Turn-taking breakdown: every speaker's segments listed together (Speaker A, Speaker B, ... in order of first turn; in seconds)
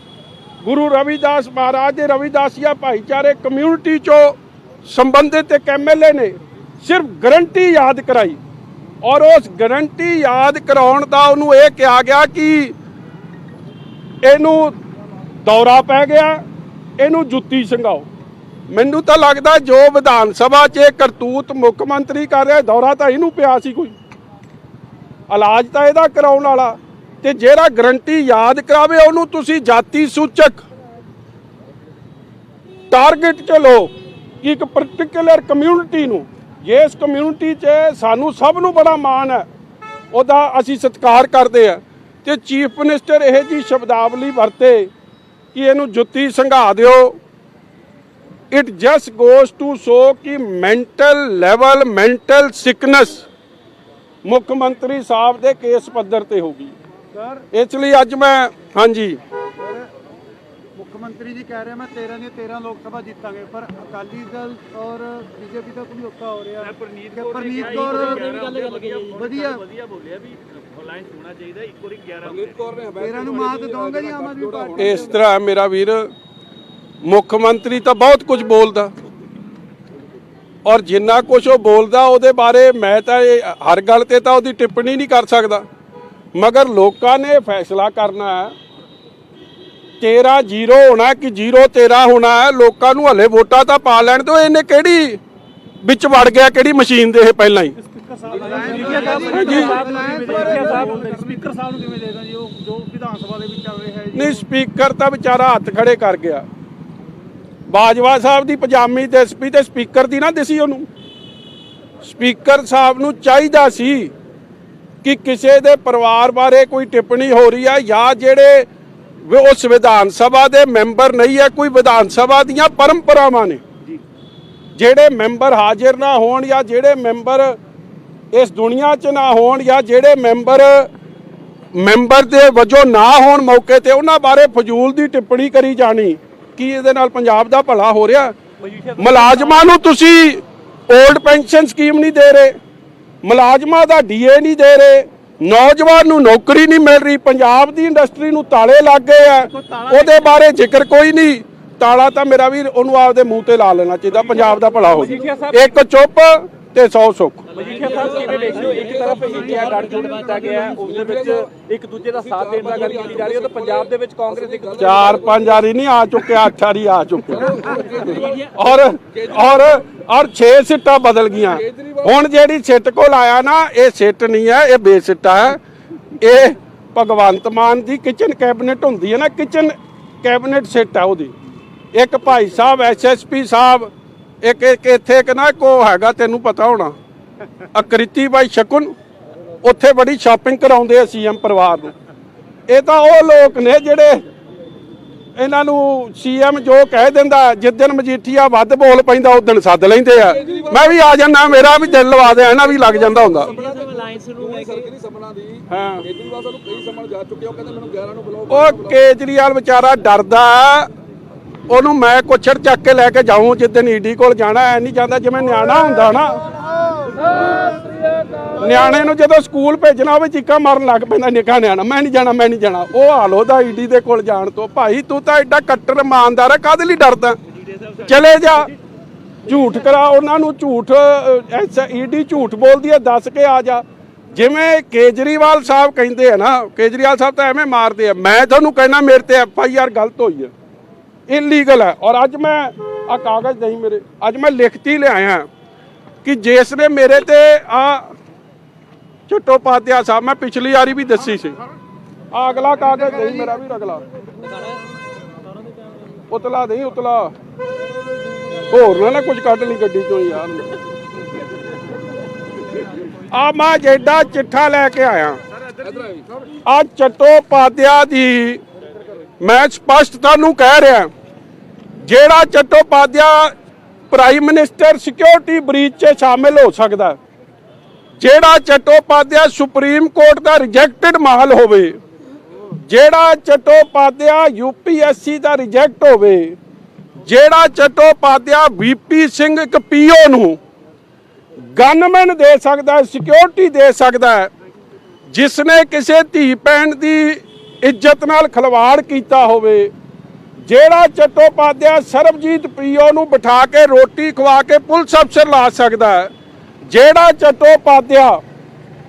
Speaker A: 0.6-8.4, 9.0-12.7, 14.2-14.7, 15.4-16.4, 17.0-18.1, 18.7-23.9, 25.3-30.6, 32.9-39.5, 40.1-44.9, 45.5-47.2, 48.5-53.3, 54.2-56.7, 57.5-59.2, 74.8-76.1, 77.0-78.9, 80.6-85.6, 86.3-88.5, 90.0-95.2, 95.8-97.7, 99.2-99.9, 104.1-106.4, 107.7-110.9, 112.0-114.1, 115.0-118.7, 119.2-123.6, 124.8-127.6, 128.3-130.9, 131.7-138.3, 139.0-142.5, 143.2-157.4, 164.8-167.6, 168.5-175.6, 176.2-181.3, 181.9-183.9, 184.4-186.9, 187.7-188.9, 189.6-191.9, 192.7-194.2, 195.3-203.6, 205.7-206.0, 208.5-210.9, 211.7-216.4, 218.5-227.4, 228.0-228.7, 229.4-240.5, 241.3-245.5, 246.2-248.1, 249.3-251.6, 252.3-254.0, 256.3-257.3, 258.7-260.7, 263.3-265.4, 266.6-268.6, 269.4-271.1, 272.0-273.5, 274.1-277.2, 278.2-281.9, 282.8-286.6, 287.2-290.6, 291.7-294.5, 295.3-299.9, 300.6-306.3, 306.9-308.4
Speaker B: 57.2-57.4, 59.6-59.9, 60.8-68.5, 69.1-69.6, 73.0-75.0, 97.8-104.3, 159.0-160.8
Speaker C: 66.7-72.2, 98.8-101.4, 138.7-139.7, 154.9-155.7, 157.5-164.8, 203.7-204.3
Speaker D: 68.0-69.0, 72.2-75.2, 98.3-99.7, 157.7-160.1, 160.7-161.5, 162.1-165.6, 167.3-168.5, 169.2-169.8, 171.4-172.1, 200.2-209.0, 265.8-266.3